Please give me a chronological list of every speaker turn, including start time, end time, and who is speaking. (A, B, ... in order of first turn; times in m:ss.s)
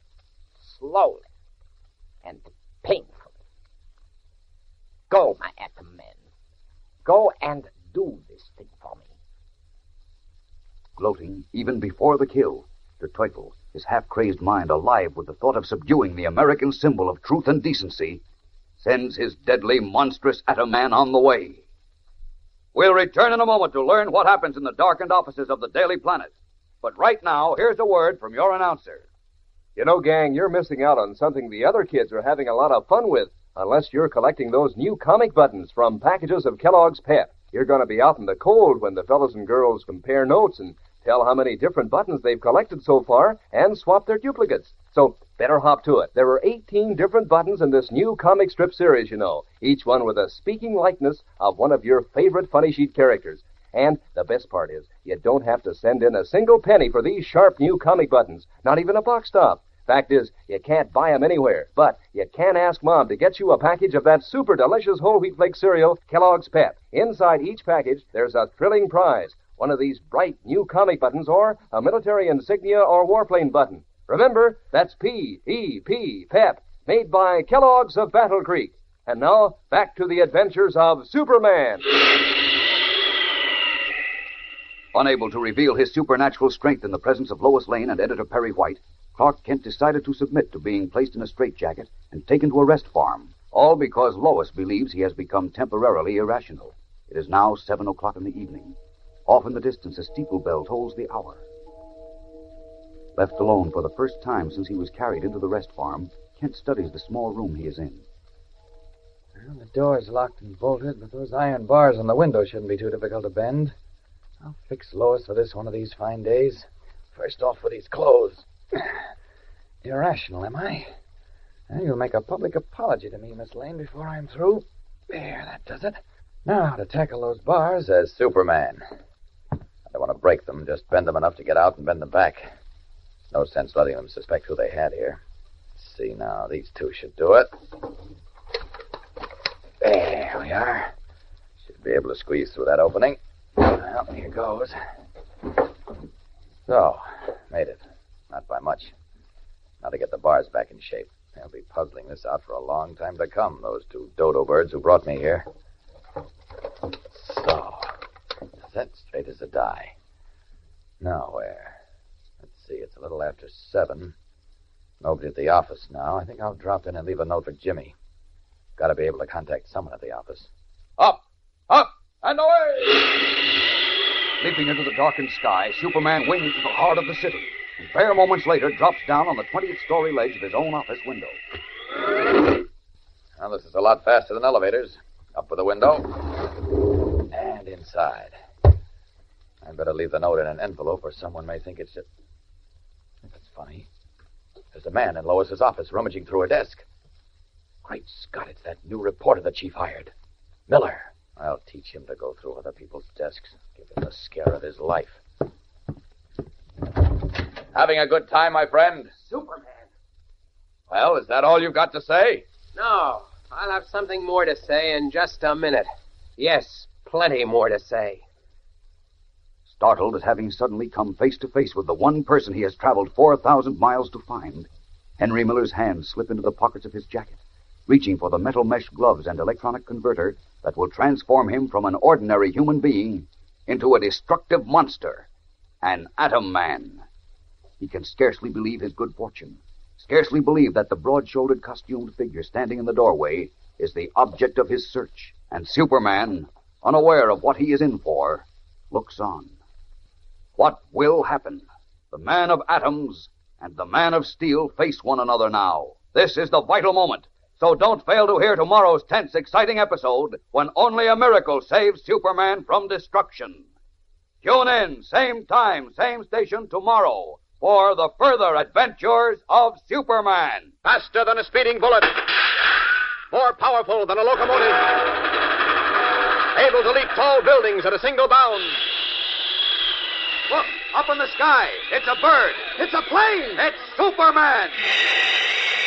0:00.6-0:01.3 A
0:02.2-0:03.3 A
0:05.1-0:06.2 A
0:07.0-0:09.1 A
0:11.0-0:18.2 B
0:18.8-0:21.6 B
0:22.7-0:29.1 B
0:29.8-1:21.8 C
1:24.9-1:41.4 B
1:43.2-1:48.0 B
1:49.4-1:53.7 D
1:54.4-1:59.0 D
1:59.8-2:00.8 D
2:01.7-2:08.8 D
2:09.9-2:12.5 D
2:13.3-2:15.2 D
2:15.8-2:17.5 D
2:19.8-2:20.9 D
2:21.6-2:24.8 D
2:26.7-2:28.9 D
2:29.8-2:35.5 D
2:37.1-2:37.9 D
2:38.6-2:39.9 D
2:41.0-2:41.8 D
2:42.4-2:44.1 D
2:45.0-2:48.0 D
2:48.8-2:50.5 D
2:51.0-2:53.4 B
2:54.4-3:01.4 B
3:03.4-3:06.5 D
3:07.3-3:08.3 D
3:09.6-3:12.1 D
3:13.3-3:13.9 D
3:14.7-3:16.8 D
3:17.8-3:20.1 D
3:20.7-3:25.2 D
3:27.7-3:29.1 D
3:29.3-3:29.7 E
3:30.9-3:32.4 D
3:32.8-3:38.2 E
3:39.7-3:55.3 B
3:55.8-3:57.0 B
3:57.8-4:09.6 B
4:10.6-4:23.7 B
4:24.4-4:30.7 B
4:30.8-4:32.5 F
4:33.3-4:35.4 F
4:36.5-4:38.8 F
4:40.5-4:44.8 B